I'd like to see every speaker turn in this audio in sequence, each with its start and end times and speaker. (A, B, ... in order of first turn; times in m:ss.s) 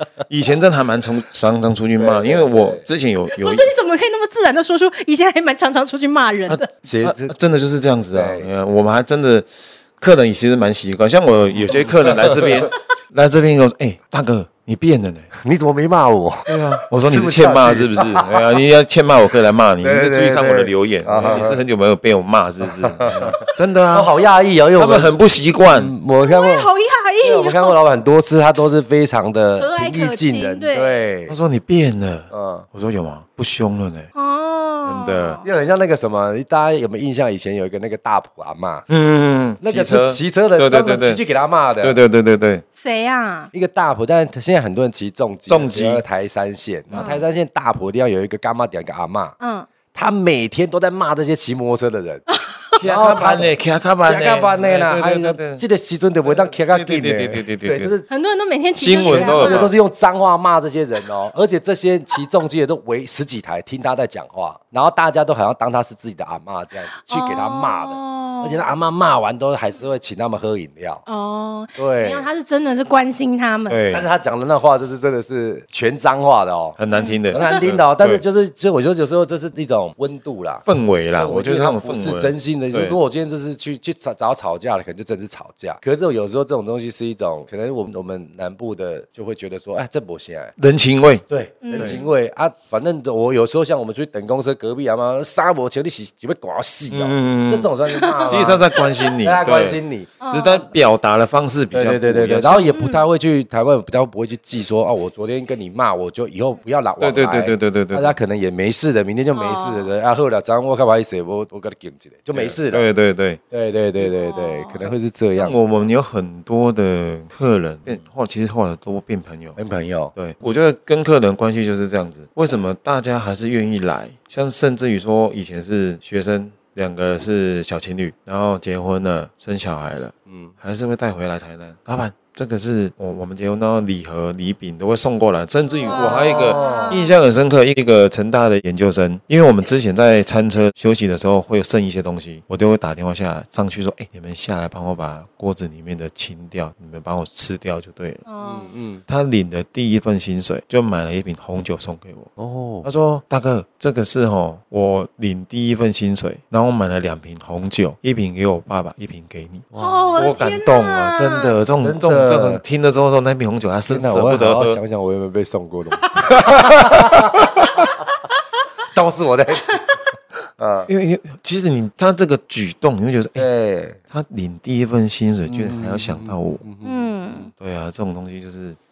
0:00.3-0:03.7 A
0:02.0-0:02.8 B
0:03.3-0:06.7 C
0:06.5-0:15.3 A
0:06.8-0:07.3 B
0:08.1-0:08.5 B
0:11.5-0:12.7 B
0:15.4-0:18.5 B
0:16.5-0:24.1 A
0:19.8-0:21.6 B
0:22.6-0:26.7 B
0:24.8-0:25.9 A
0:26.2-0:27.7 C
0:27.2-0:31.4 B
0:29.6-0:30.9 C
0:31.3-0:34.1 A
0:32.3-0:32.6 B
0:34.1-0:35.4 C
0:34.8-0:35.4 A
0:35.4-0:38.9 B
0:38.9-0:41.2 A
0:39.6-0:42.0 B
0:41.8-0:42.6 A
0:42.7-0:43.5 C
0:43.5-0:49.4 B
0:45.5-0:46.0 A
0:46.9-0:47.2 A
0:46.9-0:47.2 C
0:49.4-0:49.7 C
0:49.9-0:52.2 B
0:52.3-0:52.6 C
0:52.8-0:55.6 A
0:52.8-0:53.5 B
0:54.0-0:58.1 B
0:56.2-0:57.9 A
0:58.1-0:59.7 C
0:58.8-0:59.7 A
0:58.9-1:11.0 B
1:07.0-1:08.7 C
1:11.0-1:13.8 C
1:11.8-1:12.3 B
1:13.7-1:14.1 A
1:13.9-1:16.8 B
1:16.8-1:18.2 A
1:16.9-1:17.6 C
1:17.3-1:30.5 B
1:20.6-1:23.0 A
1:30.6-1:32.0 A
1:31.3-1:38.6 B
1:31.6-1:32.1 C
1:36.9-1:37.7 A
1:37.9-1:39.2 C
1:38.3-1:42.7 A
1:39.2-1:40.2 B
1:40.2-1:40.6 C
1:41.7-1:52.8 B
1:42.7-1:43.0 C
1:47.0-1:48.2 A
1:49.3-1:49.9 C
1:52.3-1:53.4 A
1:53.5-1:55.6 B
1:54.0-1:54.8 C
1:54.8-1:59.6 A
1:59.6-2:00.1 B
2:00.1-2:28.2 A
2:10.3-2:10.5 B
2:15.8-2:17.1 C
2:15.9-2:17.0 B
2:28.3-2:28.7 C
2:28.4-2:29.0 B
2:29.1-2:32.3 A
2:32.4-2:32.9 B
2:32.8-2:44.8 A
2:39.7-2:40.2 B
2:39.8-2:41.6 C
2:41.8-2:42.6 B
2:43.9-2:47.8 B
2:46.4-2:47.4 A
2:48.9-2:49.9 B
2:49.7-2:49.9 C
2:50.6-2:50.9 B
2:50.9-2:53.5 A
2:53.4-2:54.0 B
2:54.1-2:56.6 A
2:55.5-2:57.1 B
2:56.8-2:57.5 C
2:57.6-2:58.8 A